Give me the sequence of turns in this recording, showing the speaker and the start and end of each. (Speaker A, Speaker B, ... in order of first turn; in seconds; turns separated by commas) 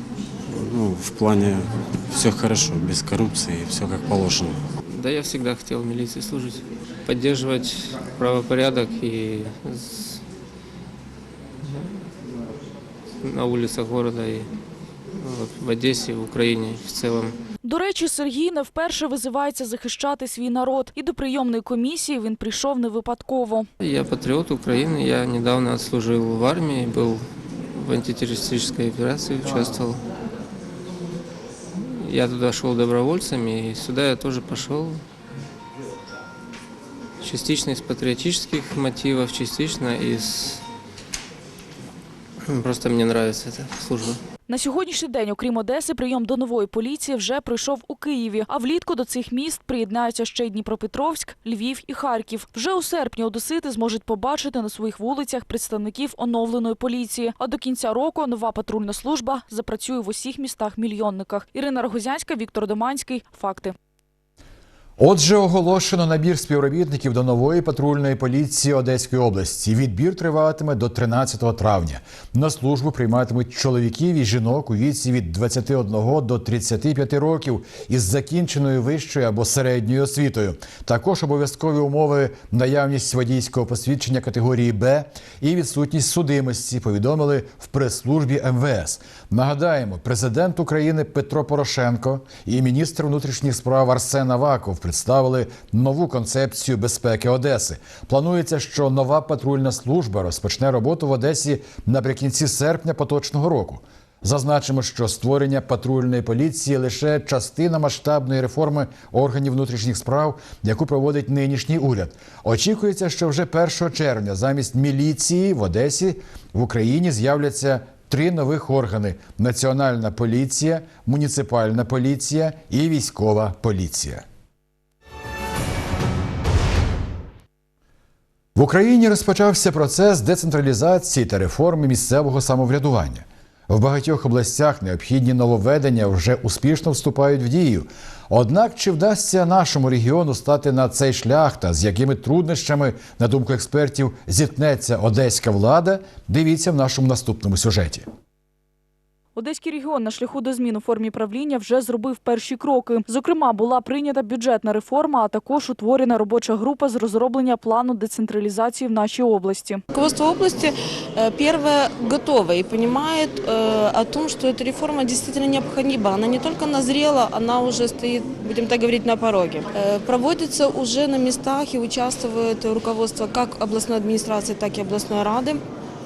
Speaker A: 0.4-4.7, Speaker B: 4.9-10.2, Speaker B: 13.2-14.5, Speaker B: 15.2-17.4, Speaker C: 17.6-23.7, Speaker B: 23.8-30.0, Speaker B: 31.8-35.0, Speaker B: 37.2-40.6, Speaker B: 42.4-44.2, Speaker C: 44.5-63.8, Speaker D: 65.0-124.2, Speaker D: 128.6-148.1, Speaker C: 149.3-159.8, Speaker E: 159.9-175.6